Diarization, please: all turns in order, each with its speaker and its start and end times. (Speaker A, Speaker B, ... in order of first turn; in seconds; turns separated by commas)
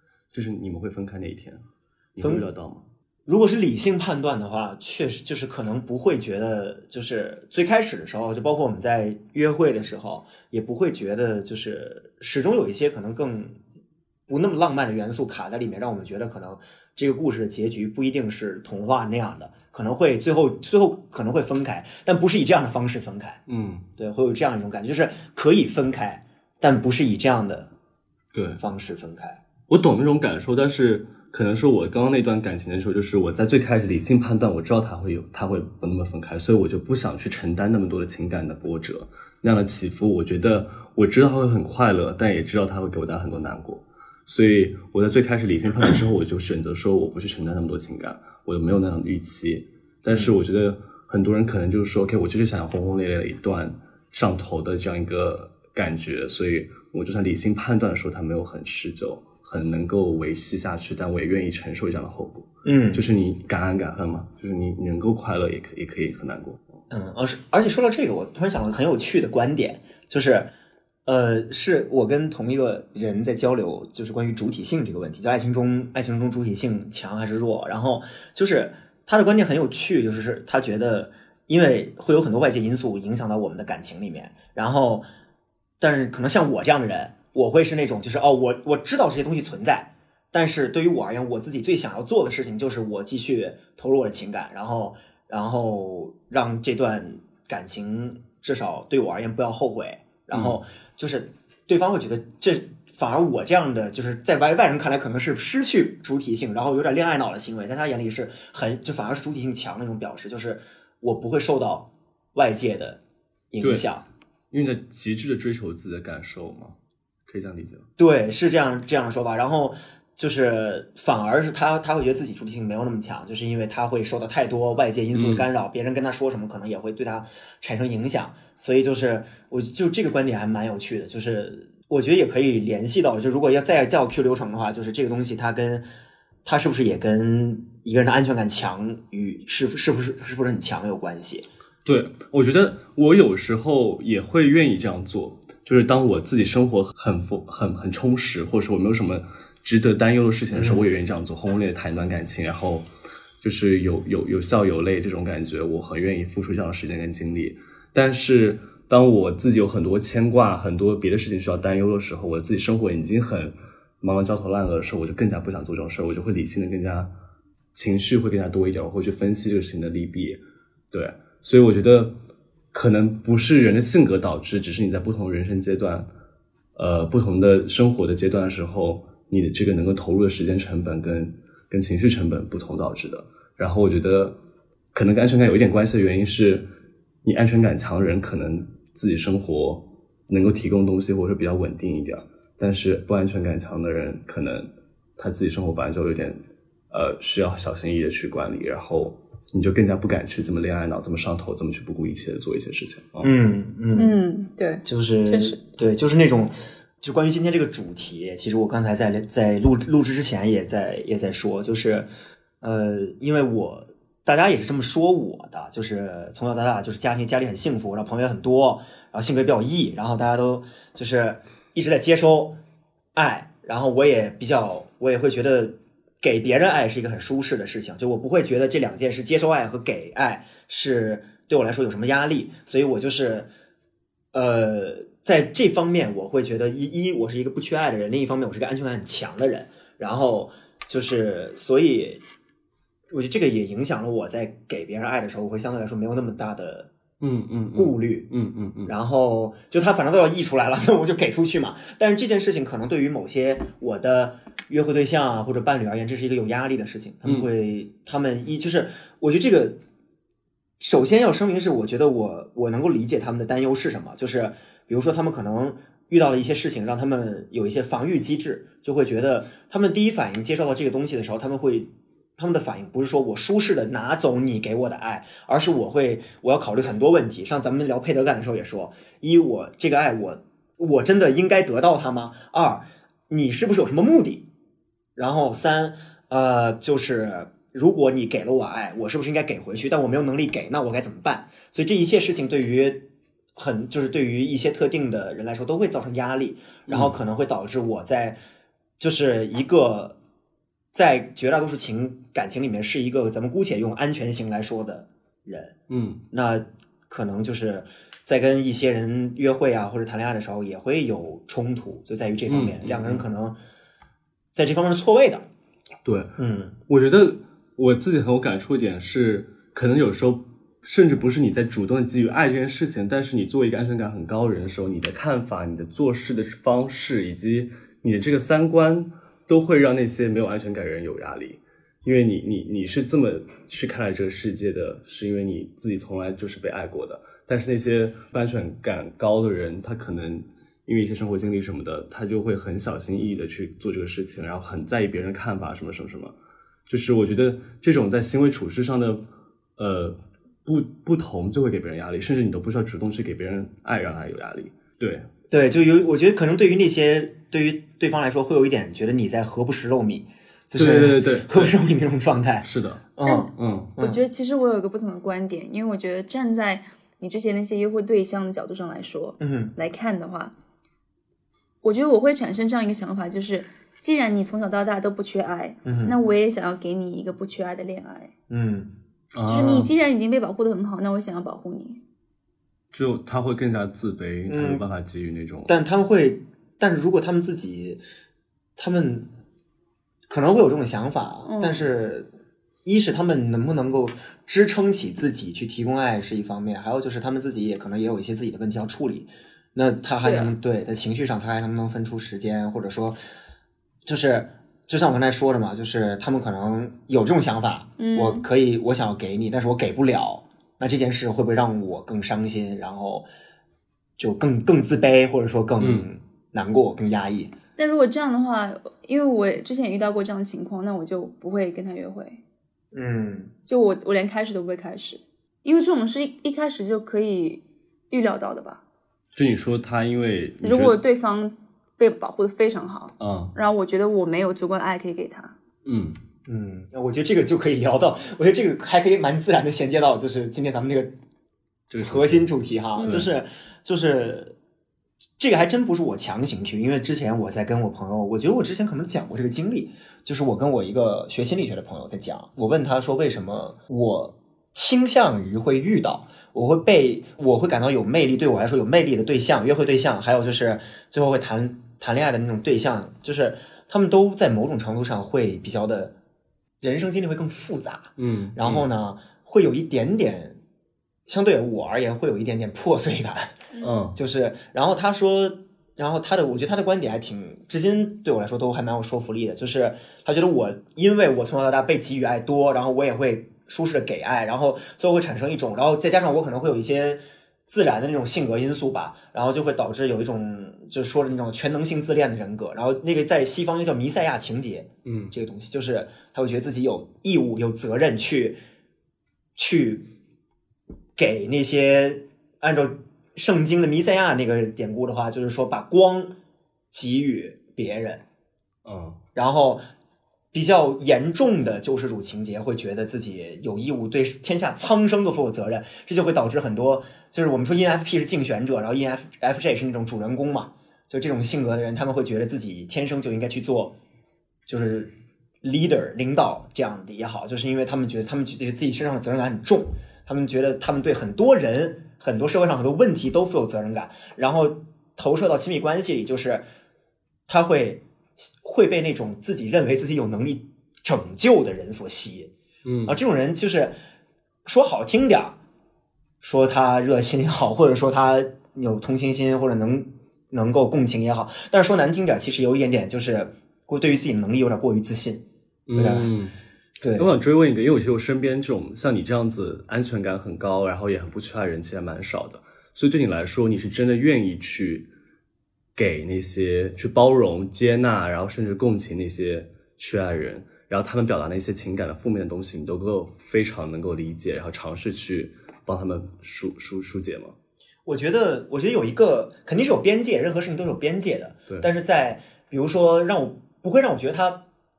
Speaker A: 0.3-1.6, Speaker A: 2.1-2.9, Speaker B: 2.2-2.5, Speaker B: 3.3-13.6, Speaker B: 14.3-23.4, Speaker A: 23.5-23.9, Speaker B: 24.0-27.7, Speaker A: 28.3-28.6, Speaker B: 28.6-29.4, Speaker A: 29.7-66.6, Speaker B: 50.1-50.4, Speaker B: 62.6-63.1, Speaker B: 66.9-70.5, Speaker B: 71.1-85.0, Speaker B: 85.8-113.0, Speaker B: 113.5-114.0, Speaker A: 114.5-116.8, Speaker A: 117.3-117.9, Speaker B: 118.0-135.8, Speaker A: 125.1-125.5, Speaker B: 136.4-141.5, Speaker A: 141.8-152.9, Speaker B: 150.5-150.8, Speaker A: 153.4-167.1, Speaker A: 167.7-170.4, Speaker A: 170.9-172.2, Speaker A: 172.7-176.1, Speaker A: 176.8-184.4, Speaker A: 184.9-186.7, Speaker A: 187.2-196.4, Speaker A: 196.9-203.3, Speaker B: 203.2-204.2, Speaker C: 203.9-205.6, Speaker B: 204.8-212.1, Speaker B: 212.6-222.6, Speaker B: 223.1-233.5, Speaker B: 234.3-242.2, Speaker B: 243.1-246.9, Speaker A: 247.2-248.9, Speaker B: 247.7-248.3, Speaker B: 248.9-259.8, Speaker B: 260.8-284.5, Speaker B: 285.2-298.4, Speaker A: 296.9-297.1, Speaker B: 299.0-300.2, Speaker B: 300.9-305.8, Speaker A: 305.9-306.2, Speaker B: 306.3-313.6, Speaker A: 312.5-313.2, Speaker B: 314.5-315.5, Speaker A: 316.1-316.4, Speaker B: 316.4-316.8, Speaker A: 316.9-346.3, Speaker A: 346.9-349.2, Speaker A: 349.8-355.3, Speaker B: 355.5-364.2, Speaker A: 360.8-361.8, Speaker A: 362.6-363.9, Speaker C: 363.2-370.5, Speaker B: 369.4-369.7, Speaker C: 371.8-378.3, Speaker B: 375.9-376.1, Speaker B: 378.5-378.9, Speaker A: 379.3-379.9, Speaker C: 379.4-382.0, Speaker A: 382.9-385.7, Speaker B: 384.5-384.9, Speaker B: 385.7-388.0, Speaker B: 388.8-389.3, Speaker B: 390.3-392.3, Speaker C: 391.4-391.8, Speaker B: 392.9-403.2, Speaker C: 400.2-400.6, Speaker B: 404.1-413.3, Speaker C: 408.0-408.4, Speaker B: 414.2-417.5, Speaker A: 415.8-416.1, Speaker C: 417.8-422.4, Speaker B: 422.9-423.5, Speaker C: 423.7-428.8, Speaker A: 429.4-431.0, Speaker C: 430.6-435.6, Speaker A: 433.2-433.6, Speaker A: 435.9-436.2, Speaker B: 436.4-441.1, Speaker A: 441.9-442.5, Speaker B: 442.0-444.6, Speaker C: 442.9-443.2, Speaker A: 443.0-443.3, Speaker B: 445.4-466.1, Speaker B: 466.8-470.6, Speaker A: 468.2-468.9, Speaker B: 471.3-473.6, Speaker A: 473.8-474.2, Speaker B: 474.1-498.6, Speaker A: 495.1-495.4, Speaker B: 499.6-500.1, Speaker B: 501.2-506.4, Speaker B: 506.9-508.2, Speaker A: 508.9-509.2, Speaker B: 509.4-509.8, Speaker B: 510.5-524.0, Speaker B: 524.7-536.6, Speaker B: 537.5-542.5, Speaker A: 542.9-543.2, Speaker B: 543.1-544.0, Speaker B: 544.6-545.6, Speaker B: 546.4-555.5, Speaker A: 555.9-556.5, Speaker B: 556.0-556.3, Speaker B: 557.0-557.3, Speaker A: 557.2-565.1, Speaker A: 566.0-577.5, Speaker B: 578.1-584.6